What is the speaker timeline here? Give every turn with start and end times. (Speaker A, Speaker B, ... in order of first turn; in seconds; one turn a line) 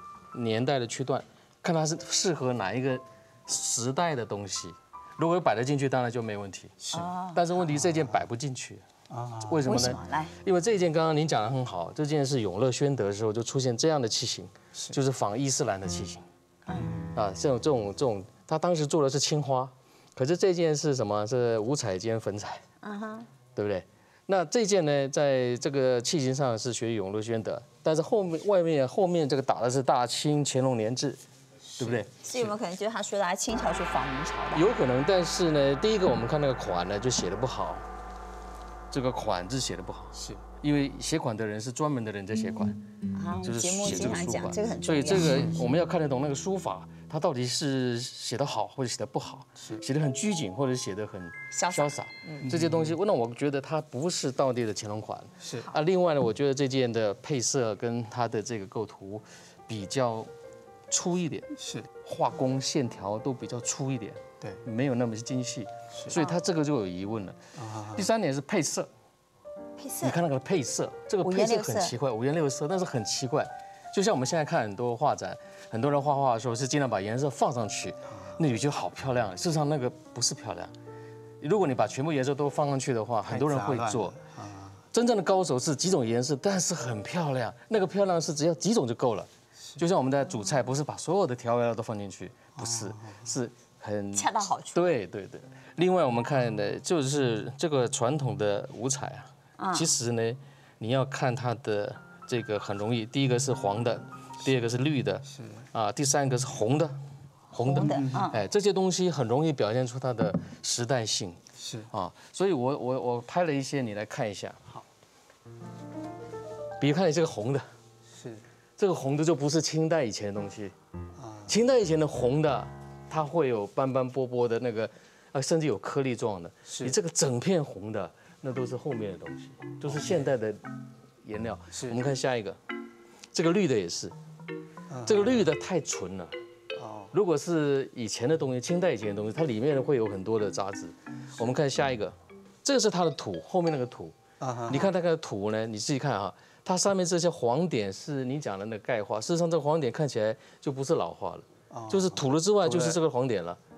Speaker A: 0.3-6.8
Speaker B: 6.8-7.1
Speaker C: 6.9-7.5
Speaker A: 7.3-8.8
Speaker B: 7.6-8.2
Speaker B: 9.1-9.7
Speaker A: 9.4-16.2
Speaker C: 9.6-10.3
Speaker B: 16.8-17.1
Speaker A: 17.1-22.6
Speaker C: 22.8-23.3
Speaker A: 23.6-31.2
Speaker A: 31.8-32.5
Speaker C: 32.2-34.7
Speaker A: 34.5-37.9
Speaker A: 38.9-42.8
Speaker B: 40.1-40.4
Speaker C: 43.1-45.6
Speaker A: 43.4-60.3
Speaker B: 45.1-45.6
Speaker B: 49.6-49.8
Speaker C: 51.5-52.0
Speaker B: 52.4-53.0
Speaker B: 55.4-55.7
Speaker A: 60.9-61.5
Speaker B: 61.5-61.9
Speaker A: 62.0-67.4
Speaker B: 65.9-66.2
Speaker C: 66.1-66.4
Speaker B: 67.5-68.1
Speaker A: 67.9-68.9
Speaker C: 69.8-70.2
Speaker A: 70.0-80.7
Speaker C: 71.2-71.9
Speaker B: 78.1-78.4
Speaker A: 81.4-84.2
Speaker B: 83.2-84.8
Speaker A: 84.9-107.0
Speaker B: 92.5-93.4
Speaker C: 94.1-94.9
Speaker C: 99.6-99.9
Speaker B: 105.3-105.7
Speaker A: 107.5-111.4
Speaker C: 107.5-108.4
Speaker B: 107.7-108.3
Speaker B: 111.6-111.9
Speaker A: 111.9-114.6
Speaker A: 116.8-117.7
Speaker B: 118.1-118.4
Speaker A: 118.8-120.7
Speaker B: 121.2-121.5
Speaker A: 121.5-130.6
Speaker B: 126.7-127.0
Speaker B: 129.8-130.3
Speaker A: 131.2-132.6
Speaker B: 131.7-132.0
Speaker A: 133.3-134.1
Speaker B: 134.9-135.5
Speaker A: 135.1-136.3
Speaker B: 136.7-137.1
Speaker A: 137.1-144.1
Speaker B: 144.4-144.9
Speaker A: 144.7-153.6
Speaker B: 151.7-153.0